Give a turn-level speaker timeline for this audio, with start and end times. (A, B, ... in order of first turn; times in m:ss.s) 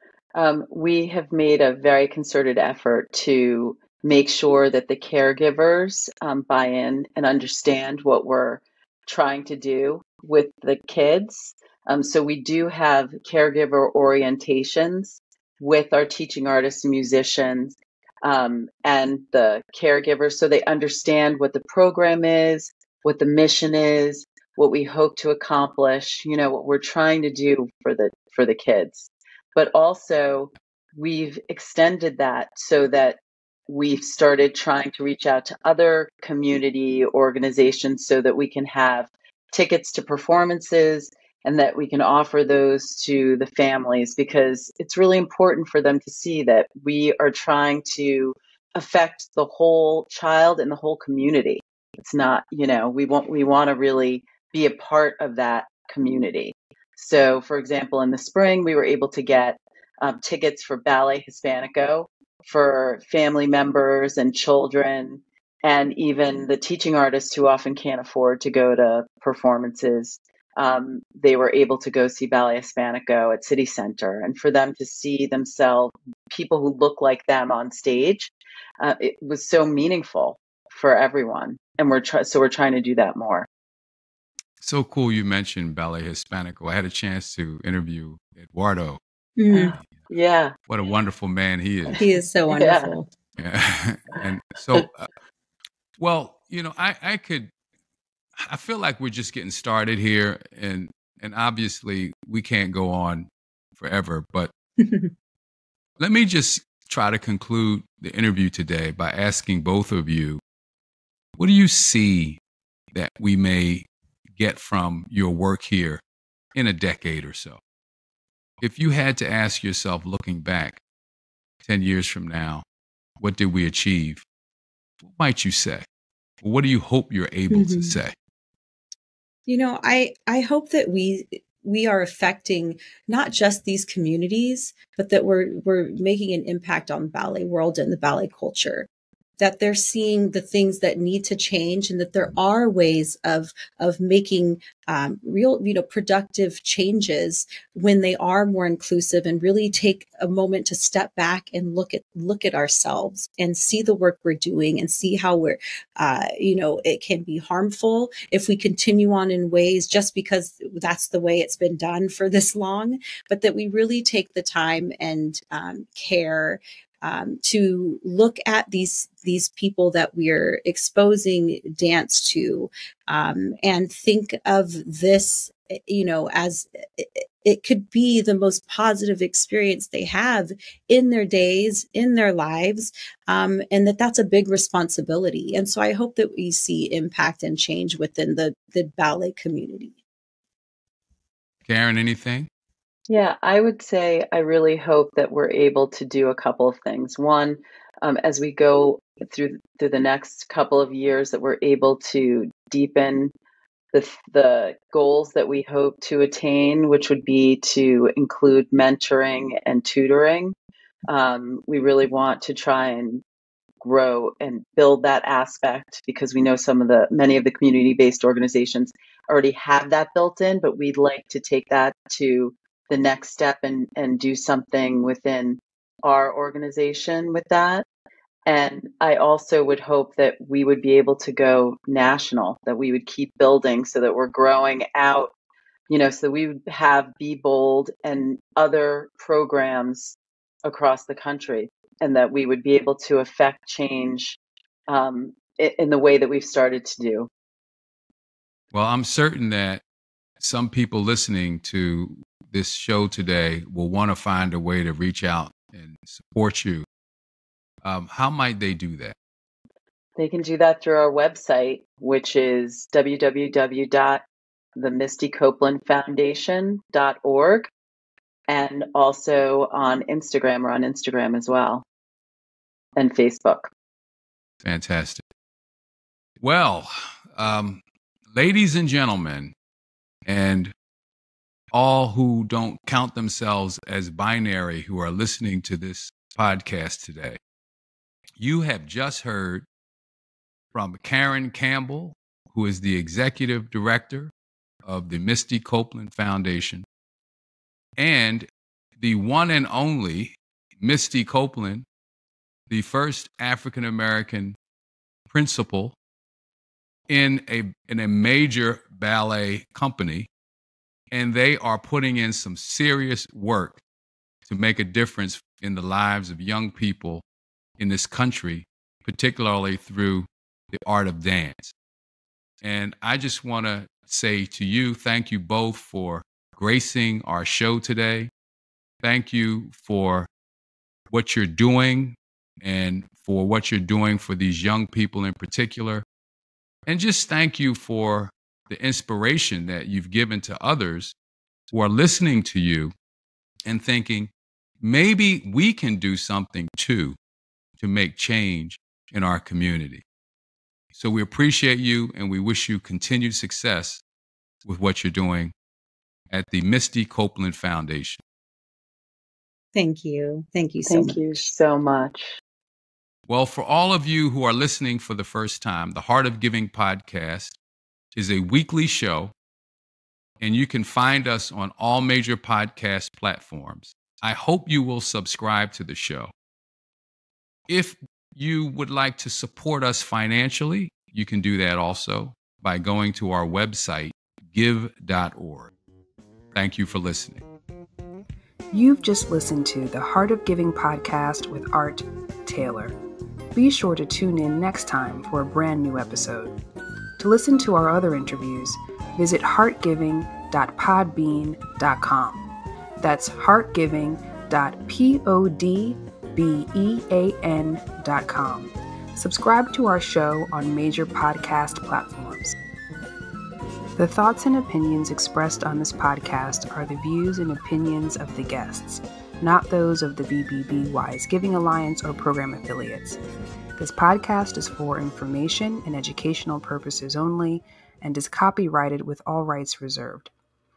0:00.3-1:23.5 A
1:24.6-1:29.0 B
1:29.4-1:29.8 C
1:29.5-1:30.5 A
1:30.7-1:32.0 B
1:31.9-1:32.9 A
1:32.0-1:33.1 C
1:33.4-1:35.1 B
1:36.0-1:37.5 B
1:38.4-1:44.5 B
1:44.8-1:45.1 C
1:46.0-1:50.4 B
1:51.4-1:52.4 B
1:52.9-1:56.0 B
1:56.5-1:57.6 B
1:58.6-2:00.8 B
2:01.6-2:02.6 B
2:03.2-2:04.2 B
2:05.0-2:05.8 B
2:06.4-2:08.1 B
2:07.5-2:08.0 C
2:09.5-2:18.9 C
2:19.4-3:10.0 C
3:11.6-3:12.5 B
3:13.1-3:23.3 A
3:23.9-3:30.5 A
3:31.1-3:33.2 A
3:33.8-3:47.8 A
3:48.4-3:55.3 A
3:55.9-4:07.3 A
4:08.7-4:09.8 B
4:10.4-4:16.8 B
4:17.8-4:19.2 B
4:20.2-4:24.2 A
4:24.8-4:27.7 A
4:28.5-4:31.8 A
4:33.0-4:33.7 A
4:34.6-4:35.2 B
4:36.4-4:39.5 B
4:40.2-4:40.7 B
4:41.7-4:47.4 B
4:48.4-4:49.6 B
4:50.7-4:54.3 B
4:54.8-4:56.8 B
4:58.0-4:58.5 B
4:59.0-5:01.8 B
5:02.7-5:04.6 B
5:05.3-5:06.0 B
5:07.1-5:10.3 B
5:11.1-5:13.8 B
5:14.4-5:17.2 B
5:17.8-5:21.7 B
5:22.6-5:28.3 B
5:29.0-5:30.3 B
5:31.1-5:36.0 B
5:36.9-5:41.1 B
5:41.7-5:42.9 B
5:43.6-5:47.2 B
5:47.8-5:50.0 B
5:50.9-5:54.0 B
5:54.6-5:55.5 B
5:56.3-5:58.2 B
5:59.7-6:01.4 C
6:00.9-6:02.4 A
6:03.3-6:07.6 B
6:08.1-6:09.3 B
6:10.4-6:16.3 B
6:17.7-6:25.7 B
6:26.5-6:27.4 B
6:28.7-6:33.0 D
6:33.5-6:36.6 D
6:37.2-6:42.5 D
6:43.0-6:52.6 D
6:54.0-7:03.2 D
7:03.8-7:10.3 D